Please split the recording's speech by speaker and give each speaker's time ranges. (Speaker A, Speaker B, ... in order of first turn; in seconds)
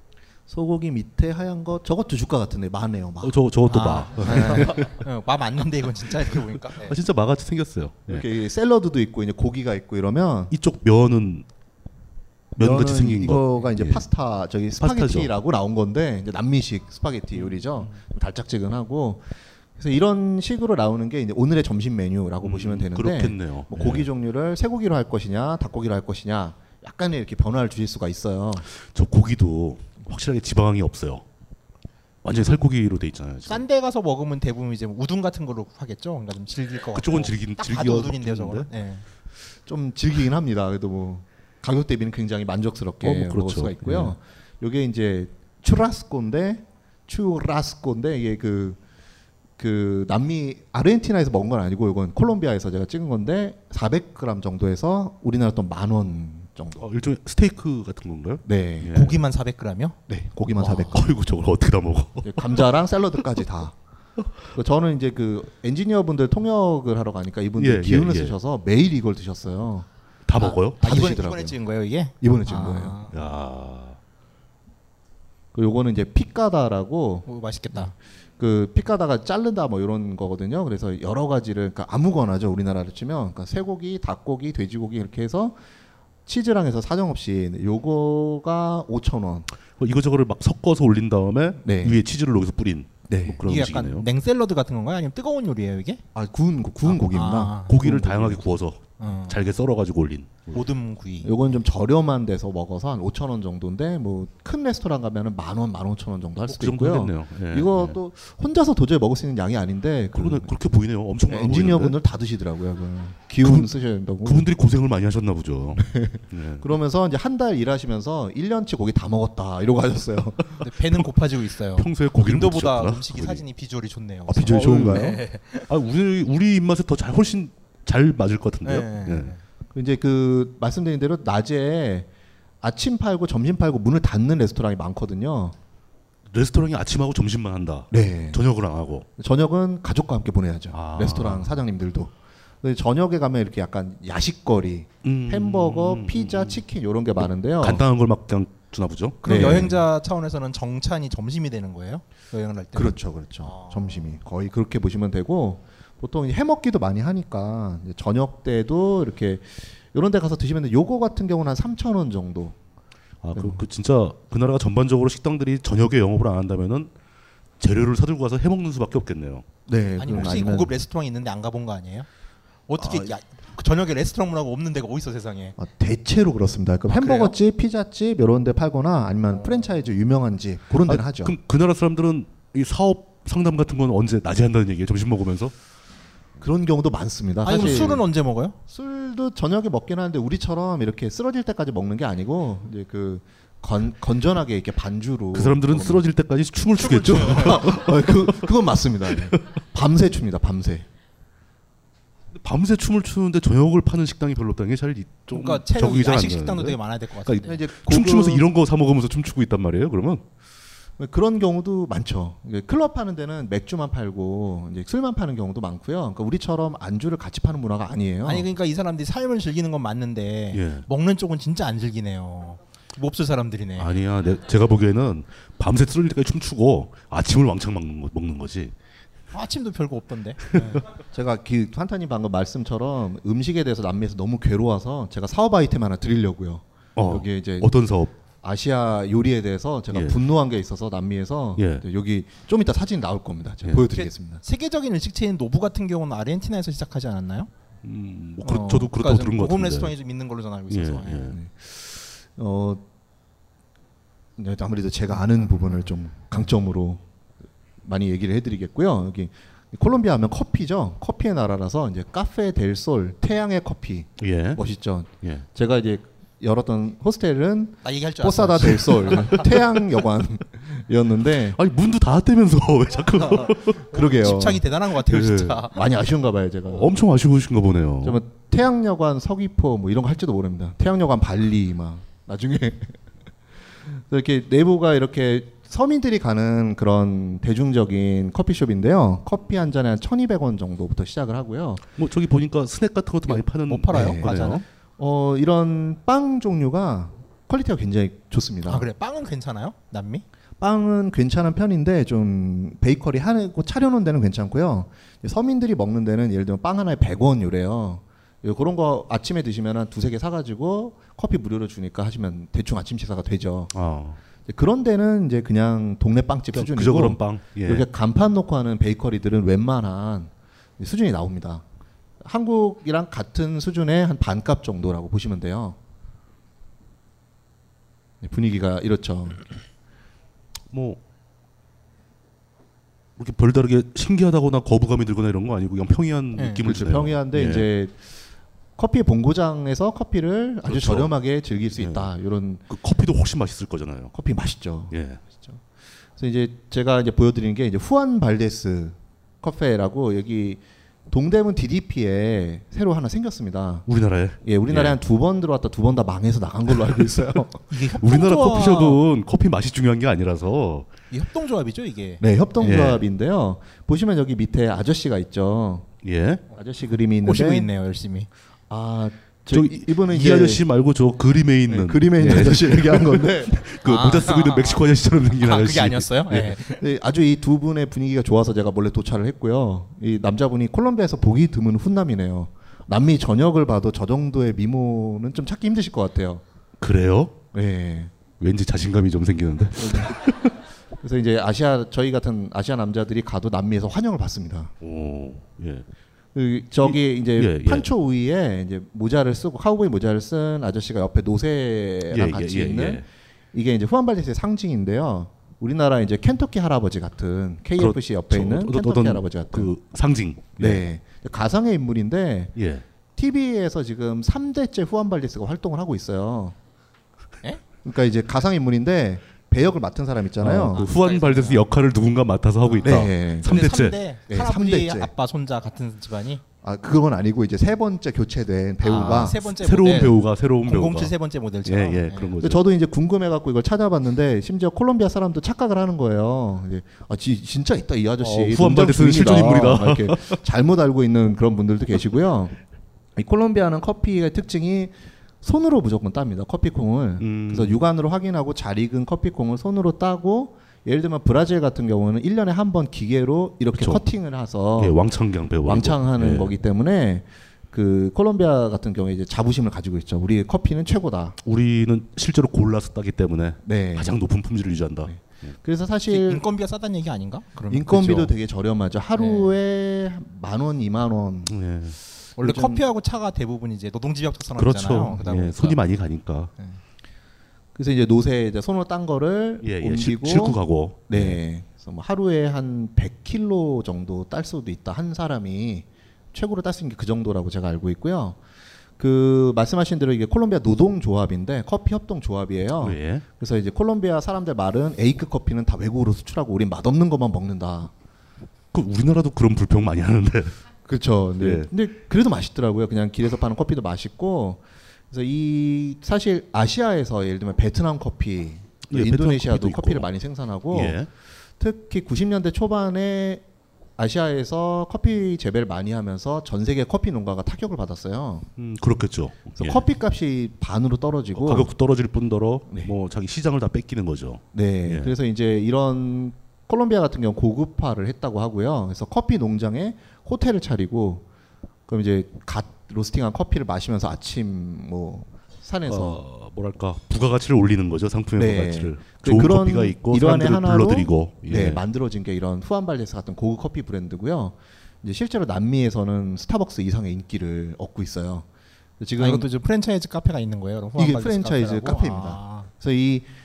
Speaker A: 0.5-4.9, 8.1-10.5, 12.6-28.6, 39.6-48.8, 49.6-56.8, 58.4-59.0, 60.1-61.1, 62.2-63.8, 64.5-69.9, 70.8-71.6, 72.2-73.0, 75.5-85.6, 86.2-89.5, 91.6-92.0, 93.1-93.4, 96.1-98.6, 101.2-110.5, 111.2-114.5, 115.7-120.6, 124.3-125.2, 129.7-132.1, 132.6-135.5, 137.9-138.4, 139.2-147.8, 149.2-149.7, 152.7-162.6, 163.3-163.6, 169.7-170.7, 172.8-173.1, 175.6-181.3, 186.4-188.1, 188.7-196.0, 196.9-200.9, 207.4-208.5, 211.0-218.5, 230.9-237.7, 238.4-244.4, 251.3-252.8, 254.4-257.0, 257.8-271.6, 273.3-274.6, 275.7-276.9, 278.0-283.0, 283.8-291.8, 293.9-298.9, 300.6-313.7, 314.4-321.6, 322.2-325.8, 328.2-329.4, 336.6-338.0, 338.8-342.6, 344.1-353.9, 354.4-357.6, 362.2-365.9, 366.5-367.7, 368.7-370.6, 371.7-374.2, 376.5-386.4, 387.5-388.1, 389.8-390.1, 391.0-394.7, 396.3-409.7, 410.6-412.6, 413.1-416.6, 417.8-420.8, 422.8-423.7, 424.3-425.1, 426.6-429.4, 432.4-442.6, 443.1-455.0, 455.6-461.4, 463.6-464.2, 465.0-466.4, 467.7-471.6, 472.4-472.8, 477.7-488.4, 489.0-497.9, 500.8-511.0, 511.6-513.4, 514.0-518.5, 519.5-521.7, 522.7-522.9, 524.5-531.2, 531.9-536.2, 538.4-548.5, 549.0-549.5, 551.0-553.3
Speaker B: 3.2-5.0, 6.8-8.2, 10.5-11.4, 12.6-14.1, 14.8-15.3, 17.4-17.9, 22.4-24.1, 28.7-31.2, 32.2-33.6, 36.9-38.7, 43.0-44.1, 56.8-59.2, 60.7-62.6, 67.6-68.3, 70.2-70.8, 73.1-74.0, 89.7-94.0, 97.7-100.6, 106.4-108.0, 110.1-111.9, 113.4-113.7, 114.2-116.7, 121.8-123.4, 124.3-125.1, 125.7-129.3, 136.3-139.1, 140.7-141.6, 145.0-146.6, 147.6-149.8, 163.2-166.9, 167.6-169.4, 170.1-170.4, 180.8-185.5, 195.3-198.5, 202.3-210.2, 220.5-220.8, 223.8-228.7, 236.9-238.1, 239.9-240.2, 241.6-241.8, 247.8-249.9, 250.7-251.3, 264.2-264.6, 271.6-273.8, 275.0-275.6, 276.7-278.2, 292.0-294.6, 313.7-314.2, 316.5-317.8, 330.7-331.0, 333.2-337.6, 340.6-341.1, 341.7-342.1, 342.7-344.1, 344.9-345.2, 353.9-355.0, 358.0-360.9, 362.6-363.0, 366.0-366.4, 369.5-376.5, 386.8-387.4, 388.4-390.5, 394.8-395.9, 396.8-397.9, 402.1-403.0, 407.8-410.8, 412.6-412.8, 420.4-424.0, 429.0-432.6, 438.2-440.4, 447.2-447.8, 453.7-454.0, 454.8-456.5, 461.4-465.5, 471.5-472.0, 474.6-476.5, 479.6-481.4, 492.8-493.2, 498.7-500.6, 501.4-501.7, 508.9-510.1, 510.7-511.1, 518.6-519.8, 521.4-525.1, 535.9-541.8
Speaker C: 3.7-7.0, 33.5-39.0, 58.9-60.0, 70.4-73.2, 77.2-77.9, 93.4-96.0, 96.8-97.7, 99.0-99.4, 100.5-101.5, 120.6-125.7, 128.6-129.4, 149.2-154.1, 170.0-172.1, 172.7-175.6, 176.9-177.3, 187.4-188.6, 196.8-197.6, 205.3-207.6, 218.2-223.9, 229.3-230.8, 243.9-247.5, 248.4-251.3, 267.8-269.5, 273.9-275.8, 293.3-294.6, 298.6-300.2, 336.4-336.6, 357.7-359.0, 361.1-362.6, 367.2-368.3, 373.8-376.8, 420.7-421.7, 422.7-426.4, 428.8-432.3, 466.1-468.3, 469.1-469.5, 472.4-475.8, 549.2-552.7